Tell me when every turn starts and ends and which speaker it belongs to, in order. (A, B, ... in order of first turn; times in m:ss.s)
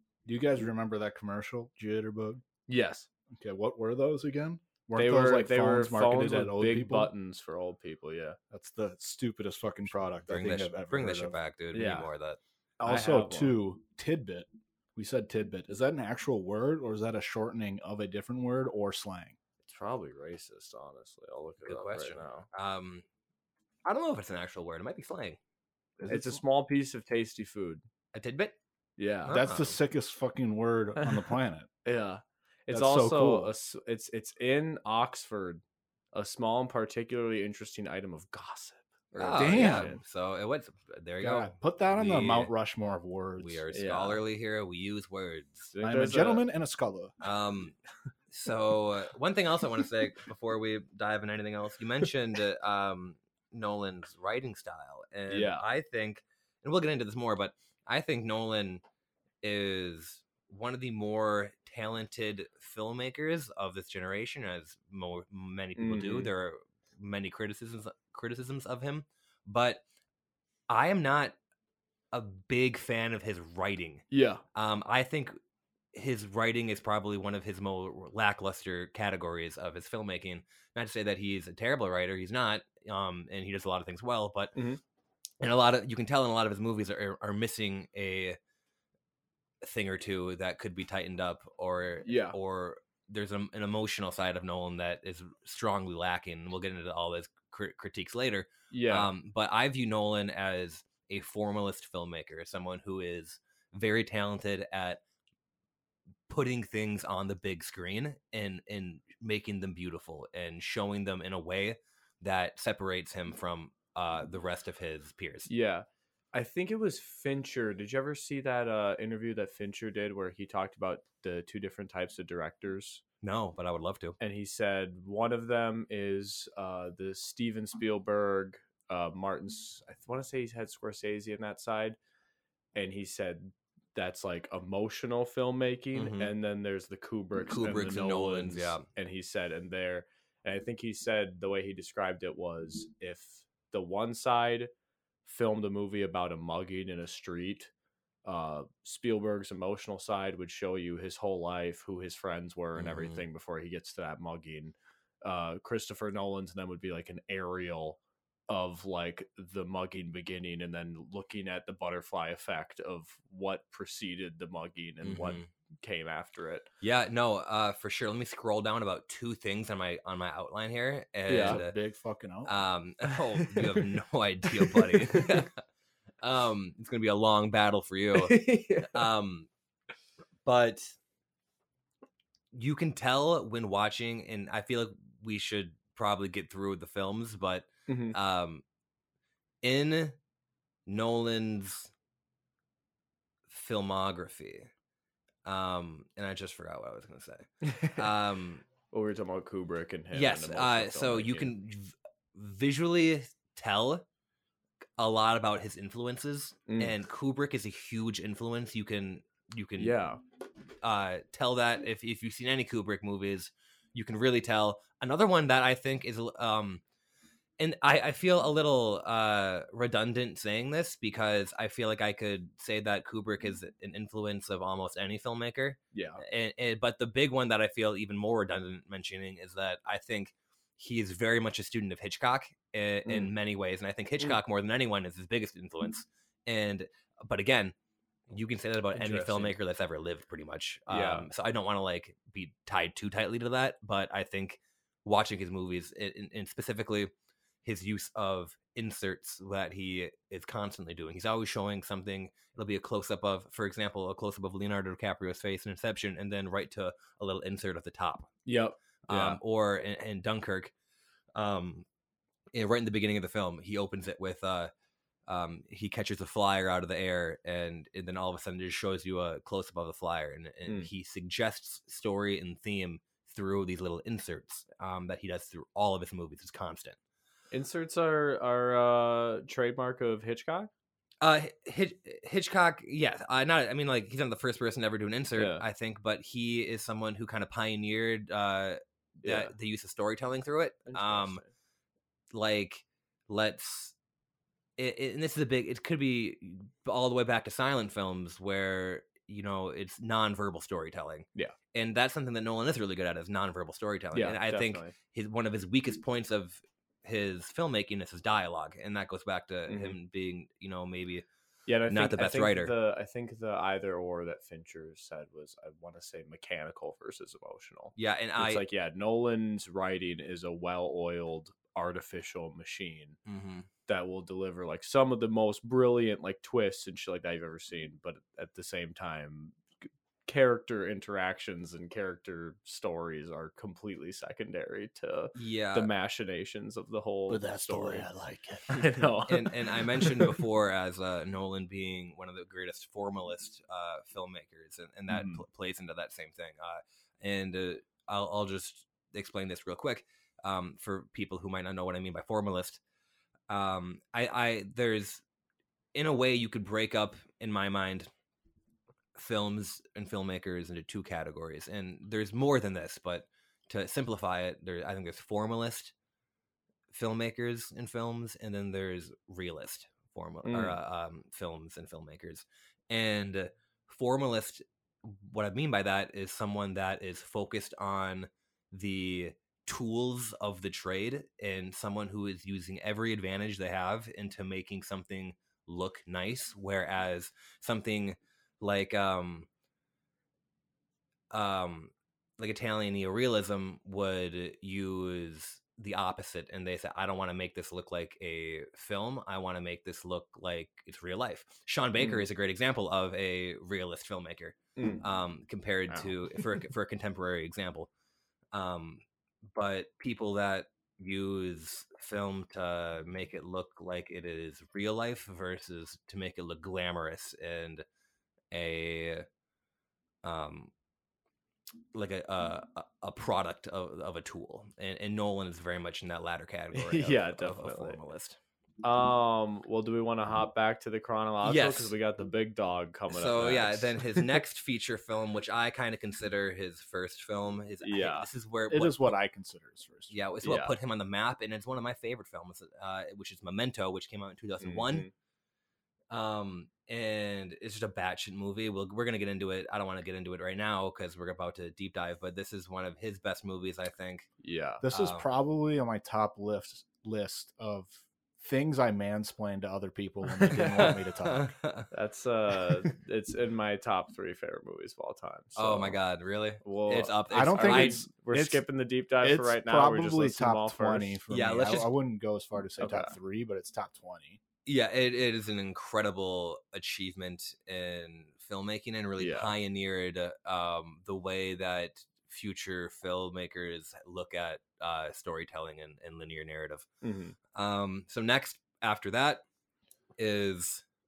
0:00.2-0:02.4 A
0:02.7-0:03.1 B
0:03.3-0:07.1 A
0:04.9-0:08.4 B
0:08.5-0:11.4 A
0:10.2-0:12.4 C
0:11.7-0:12.1 B
0:12.8-0:19.4 A
0:12.8-0:13.6 B
0:19.6-0:22.5 B
0:21.6-0:23.0 C
0:23.8-0:25.4 C
0:26.0-0:26.4 A
0:26.1-0:27.8 B
0:28.1-0:28.6 C
0:29.0-0:29.4 B
0:29.2-0:29.8 C
0:29.3-0:31.7 A
0:31.0-0:31.3 B
0:31.8-0:35.6 B
0:32.7-0:33.5 A
0:36.1-0:40.0 B
0:39.1-0:42.5 C
0:39.3-0:39.9 A
0:41.2-0:43.6 A
0:43.4-0:45.7 C
0:43.7-0:44.2 B
0:45.7-0:46.5 B
0:45.8-0:47.2 A
0:47.2-0:47.8 C
0:48.3-0:58.8 C
0:55.3-0:55.6 B
0:59.4-1:09.8 C
1:05.8-1:06.3 B
1:10.7-1:11.4 C
1:12.1-1:15.4 C
1:14.1-1:14.4 B
1:15.9-1:24.6 C
1:24.6-1:24.8 B
1:25.4-1:28.4 C
1:29.6-1:45.0 C
1:32.0-1:32.4 B
1:38.7-1:39.1 B
1:46.3-1:55.5 C
1:55.5-2:03.0 B
2:03.2-2:04.2 C
2:04.2-2:12.0 B
2:12.8-2:24.7 B
2:16.0-2:16.3 C
2:17.5-2:18.8 C
2:25.2-2:27.7 B
2:28.2-2:46.7 B
2:32.8-2:33.2 C
2:45.0-2:45.5 C
2:46.8-2:51.8 C
2:51.3-2:51.6 B
2:51.4-2:52.6 A
2:52.4-2:55.6 C
2:53.4-2:53.8 B
2:54.6-2:55.4 B
2:56.2-2:59.5 C
2:58.2-2:59.1 B
3:00.4-3:01.0 C
3:02.5-3:08.6 C
3:07.9-3:08.2 B
3:09.6-3:10.2 C
3:10.9-3:11.9 C
3:13.5-3:14.7 C
3:15.4-3:18.6 C
3:17.6-3:18.1 B
3:18.9-3:21.5 B
3:20.1-3:24.0 C
3:25.0-3:30.0 C
3:26.7-3:26.9 B
3:29.8-3:30.2 B
3:30.8-3:36.8 C
3:37.6-3:57.8 C
3:45.9-3:46.2 B
3:53.1-3:53.3 B
3:58.3-4:07.1 C
3:58.9-3:59.6 B
4:00.9-4:01.3 B
4:07.6-4:18.3 C
4:18.5-4:19.4 B
4:19.1-4:20.7 C
4:21.4-4:21.8 C
4:22.5-4:24.7 C
4:25.3-4:37.0 C
4:37.5-4:40.7 B
4:41.2-4:51.4 C
4:45.4-4:45.6 B
4:49.2-4:49.5 B
4:50.9-4:51.5 B
4:52.3-4:53.9 C
4:54.8-5:11.3 C
5:04.1-5:05.0 B
5:09.7-5:10.0 B
5:11.7-5:23.2 B
5:11.9-5:12.7 C
5:18.0-5:18.6 C
5:23.3-5:23.7 C
5:23.9-5:29.6 B
5:30.3-5:38.1 B
5:35.4-5:35.9 C
5:37.3-5:38.9 A
5:38.7-5:40.4 B
5:39.3-5:52.8 C
5:45.1-5:45.4 B
5:53.5-5:55.2 C
5:55.9-5:58.1 C
5:59.2-6:05.9 C
6:06.9-6:29.5 C
6:10.4-6:10.8 B
6:31.3-6:47.9 C
6:42.0-6:42.2 B
6:44.8-6:45.0 B
6:45.9-6:46.6 B
6:48.5-6:49.0 C
6:49.6-6:57.8 C
6:58.5-6:59.3 C
7:00.2-7:00.7 C
7:01.9-7:08.4 C
7:06.7-7:08.0 B
7:08.8-7:14.4 B
7:11.4-7:11.9 C
7:13.1-7:19.2 C
7:17.8-7:18.3 B
7:18.7-7:20.2 A
7:20.1-7:25.1 C
7:20.4-7:20.7 B
7:24.6-7:25.1 B
7:26.1-7:34.3 C
7:34.4-7:34.8 B
7:34.8-7:41.5 A
7:34.9-7:35.3 C
7:40.5-7:41.9 C
7:41.9-7:46.0 B
7:45.6-7:48.0 C
7:46.6-7:51.2 B
7:47.3-7:48.6 A
7:49.2-7:54.4 A
7:51.3-7:51.9 C
7:52.8-7:53.2 B
7:54.7-8:06.9 C
7:59.2-7:59.5 B
8:07.0-8:07.4 B
8:07.5-8:09.4 C
8:10.2-8:10.8 C